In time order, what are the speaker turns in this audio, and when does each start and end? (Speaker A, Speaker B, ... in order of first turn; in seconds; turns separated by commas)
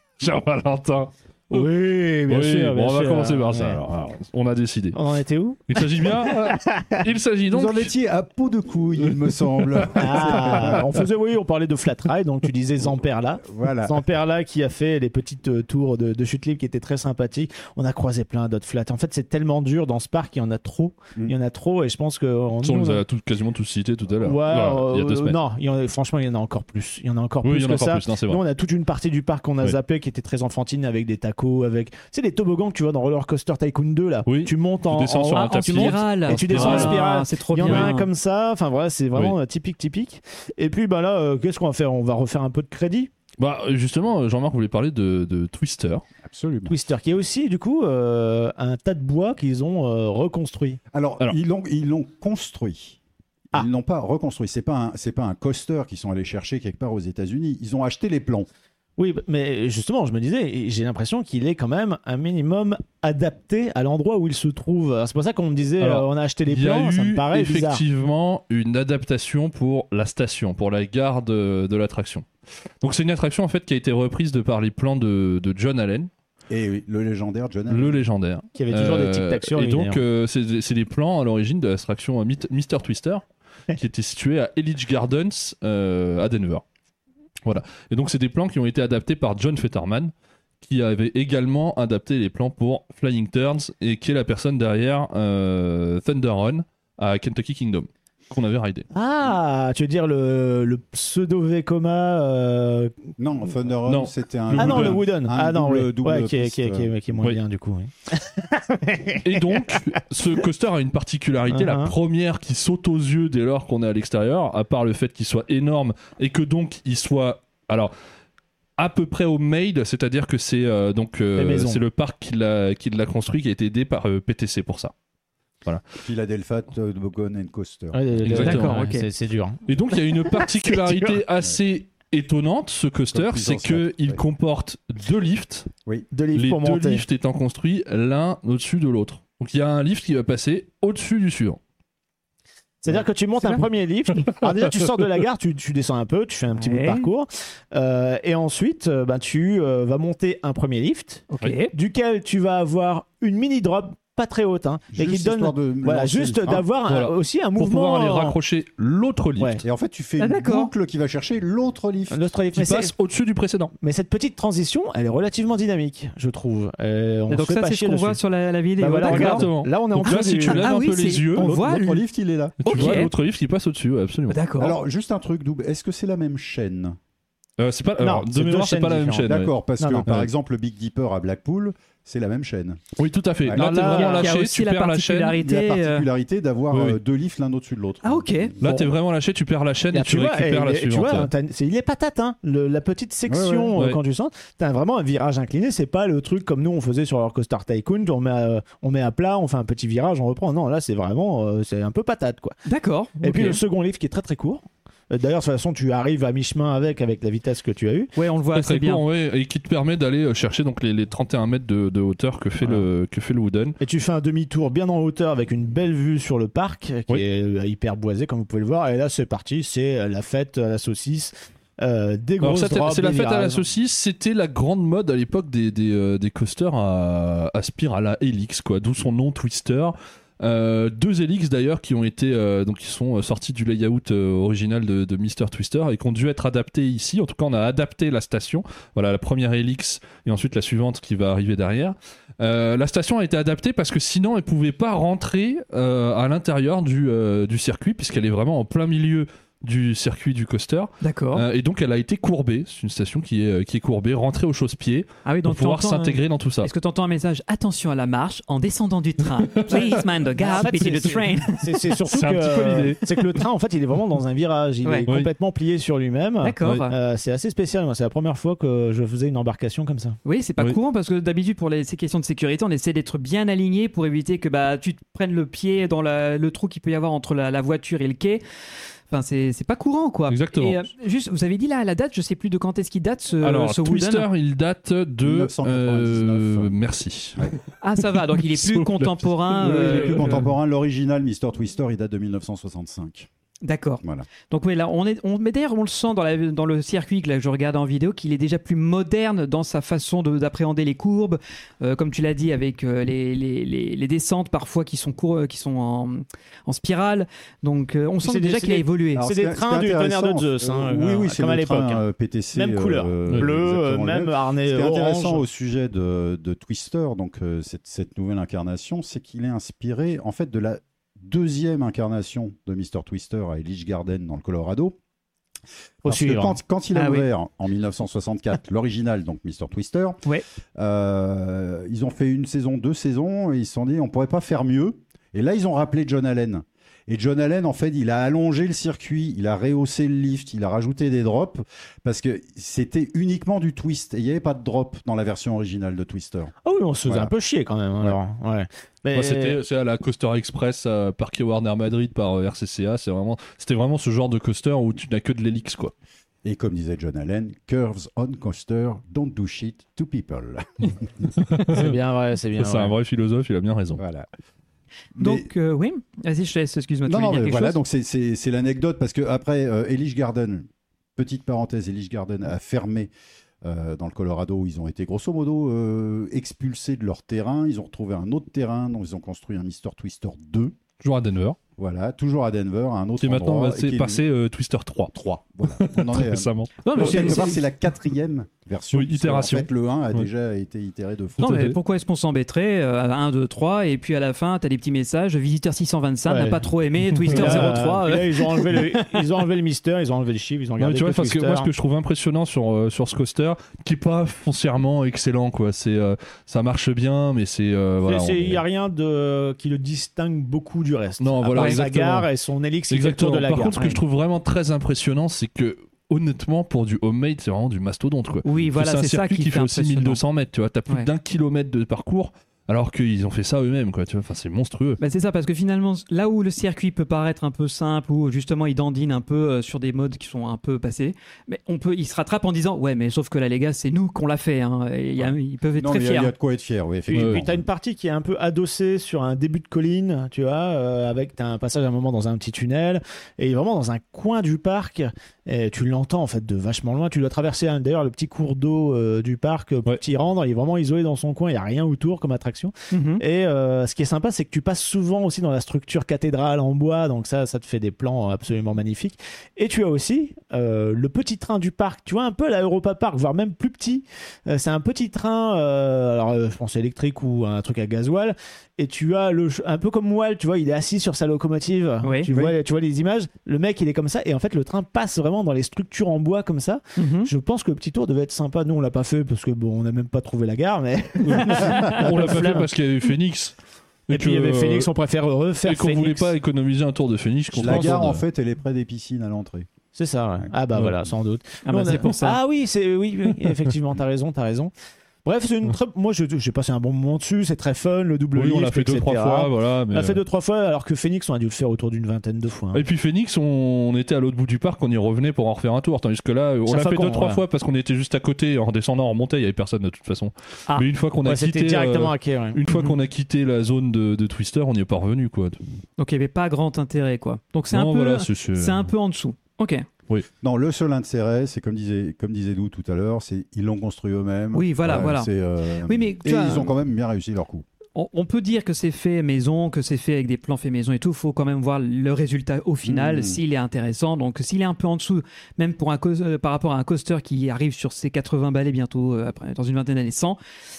Speaker A: 0.2-1.7, Speaker B: 1.5-3.8, Speaker A: 2.3-5.0, Speaker B: 4.9-7.0, Speaker A: 5.7-7.9, Speaker C: 7.5-11.0, Speaker B: 9.9-23.0, Speaker C: 13.4-14.0, Speaker A: 22.6-25.4, Speaker B: 24.2-43.1, Speaker A: 27.4-28.4, Speaker A: 34.3-37.1, Speaker D: 35.3-38.1, Speaker A: 37.6-37.9, Speaker A: 43.4-46.0, Speaker C: 46.2-46.8, Speaker B: 46.7-50.8, Speaker C: 50.9-53.0, Speaker C: 53.5-58.5, Speaker B: 59.0-67.8, Speaker A: 65.8-72.3, Speaker A: 72.8-76.1, Speaker C: 76.5-78.0, Speaker A: 77.7-86.6, Speaker B: 78.5-80.0, Speaker A: 87.5-98.9, Speaker B: 98.9-103.0, Speaker C: 103.2-106.9, Speaker A: 103.9-105.0, Speaker B: 104.6-110.0, Speaker A: 109.2-117.9, Speaker B: 111.5-111.9, Speaker A: 118.8-124.9, Speaker B: 121.4-121.8, Speaker A: 125.7-126.0, Speaker C: 126.0-128.4, Speaker B: 127.9-129.6, Speaker A: 128.2-128.8, Speaker D: 128.4-129.1, Speaker A: 129.7-135.7, Speaker C: 133.1-134.2, Speaker B: 136.1-137.0, Speaker A: 136.3-141.6, Speaker B: 142.8-158.4, Speaker D: 146.6-147.1, Speaker D: 151.3-151.7, Speaker C: 154.9-156.7, Speaker A: 156.9-159.6, Speaker B: 159.4-159.6, Speaker C: 159.6-162.2, Speaker D: 160.2-160.7, Speaker B: 162.1-162.9, Speaker A: 162.5-163.7, Speaker B: 163.8-168.2, Speaker D: 167.3-169.5, Speaker B: 168.8-170.7, Speaker A: 169.1-171.7, Speaker D: 170.1-172.0, Speaker C: 171.3-173.0, Speaker A: 172.6-174.4, Speaker D: 172.7-173.1, Speaker D: 174.3-174.8, Speaker C: 174.6-177.0, Speaker A: 177.6-179.5, Speaker B: 178.0-180.1, Speaker C: 179.2-182.8, Speaker A: 183.0-185.4, Speaker C: 183.5-183.9, Speaker B: 183.5-184.3, Speaker D: 183.9-186.1, Speaker C: 185.4-188.7, Speaker A: 186.7-187.0, Speaker D: 188.0-188.6, Speaker A: 188.6-191.3, Speaker B: 189.9-202.6, Speaker C: 193.3-193.7, Speaker D: 202.7-203.6, Speaker B: 203.2-208.1, Speaker D: 208.2-209.0, Speaker A: 208.5-213.8, Speaker B: 212.6-212.9, Speaker B: 213.8-223.6, Speaker A: 222.4-256.7, Speaker D: 251.0-251.4, Speaker D: 255.3-261.9, Speaker A: 259.7-260.0, Speaker B: 259.8-270.2, Speaker A: 262.1-263.1, Speaker D: 266.4-266.9, Speaker D: 270.2-278.4, Speaker D: 279.1-284.3, Speaker A: 280.3-280.8, Speaker A: 283.4-290.5, Speaker C: 285.2-286.7, Speaker D: 287.8-290.4, Speaker C: 289.6-293.3, Speaker D: 293.6-309.3, Speaker C: 294.0-294.3, Speaker B: 308.2-315.4, Speaker C: 309.1-325.0, Speaker C: 326.0-346.5, Speaker B: 326.1-326.6, Speaker D: 326.9-327.3, Speaker B: 346.6-349.6, Speaker C: 347.1-347.3, Speaker A: 349.1-355.9, Speaker C: 356.4-361.3, Speaker A: 361.4-361.9, Speaker B: 361.7-362.9, Speaker A: 362.6-364.0, Speaker C: 364.0-364.3, Speaker C: 365.2-365.5, Speaker D: 365.2-367.8, Speaker C: 367.1-373.1, Speaker C: 373.6-380.8, Speaker A: 381.0-381.6, Speaker C: 381.8-384.2, Speaker A: 383.2-385.1, Speaker C: 385.1-391.5, Speaker A: 385.7-387.0, Speaker D: 386.8-387.6, Speaker A: 388.9-390.3, Speaker A: 391.4-391.8, Speaker D: 391.4-398.9, Speaker B: 396.3-396.6, Speaker A: 397.2-397.8, Speaker B: 397.3-401.7, Speaker A: 400.8-408.6, Speaker B: 408.0-413.8, Speaker A: 411.2-412.3, Speaker A: 412.9-425.0, Speaker D: 413.7-414.0, Speaker D: 418.4-420.2, Speaker D: 425.0-436.3, Speaker C: 435.8-437.6, Speaker B: 437.1-482.7, Speaker A: 437.1-437.4, Speaker D: 452.9-453.2, Speaker D: 472.0-472.3, Speaker C: 472.3-472.6, Speaker D: 477.0-477.3, Speaker A: 481.2-483.6, Speaker A: 484.1-484.9, Speaker B: 484.1-486.3, Speaker A: 485.6-488.2, Speaker C: 487.5-489.7, Speaker B: 489.9-494.7, Speaker D: 491.6-492.4, Speaker B: 495.2-502.8, Speaker A: 498.4-500.2, Speaker A: 502.7-515.6, Speaker B: 506.7-507.4, Speaker B: 511.2-512.6, Speaker D: 512.7-513.0, Speaker D: 516.0-519.9, Speaker A: 517.7-518.9, Speaker C: 520.4-527.6, Speaker D: 524.5-525.3, Speaker D: 525.9-526.7, Speaker D: 528.0-540.4, Speaker C: 532.9-533.4